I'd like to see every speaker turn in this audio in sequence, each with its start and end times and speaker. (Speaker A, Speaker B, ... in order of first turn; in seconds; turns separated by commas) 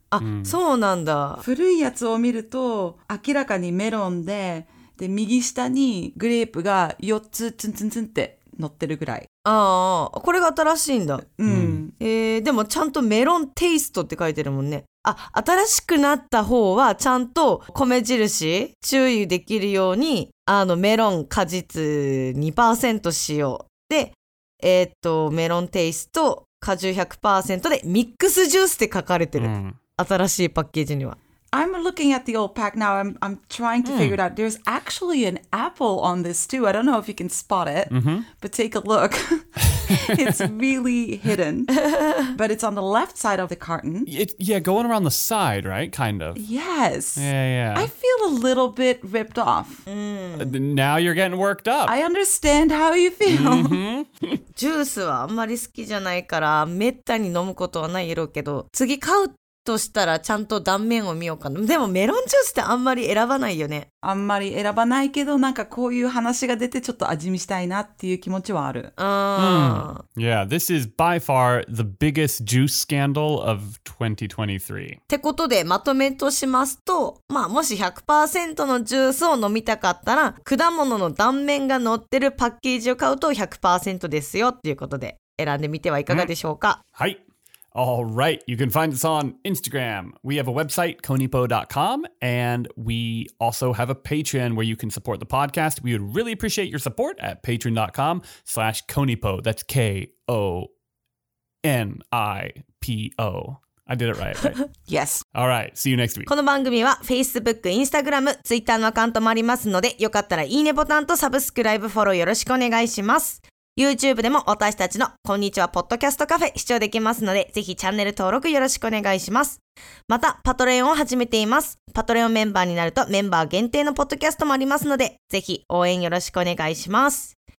Speaker A: 0.1-1.4, Speaker B: 0.2-0.6, Speaker C: 1.4-9.3, Speaker A: 9.4-11.2, Speaker C: 11.3-11.9, Speaker B: 11.4-11.8, Speaker A: 12.0-31.2, Speaker B: 29.4-29.8, Speaker C: 31.5-41.8, Speaker B: 33.9-34.2, Speaker B: 37.9-38.2, Speaker B: 39.7-40.5, Speaker A: 41.8-42.3, Speaker C: 42.3-44.1, Speaker B: 44.0-46.4, Speaker C: 46.4-49.8, Speaker B: 47.1-47.9, Speaker A: 49.9-50.5, Speaker B: 50.4-51.9, Speaker C: 51.9-53.8, Speaker B: 53.2-54.4, Speaker A: 54.5-63.9, Speaker C: 64.0-68.9, Speaker A: 69.0-70.0, Speaker B: 69.4-75.0, Speaker A: 75.1-86.8, Speaker B: 86.9-87.2, Speaker B: 87.7-100.7, Speaker B: 101.6-104.6, Speaker C: 104.9-105.2, Speaker B: 105.3-106.3, Speaker A: 106.3-127.3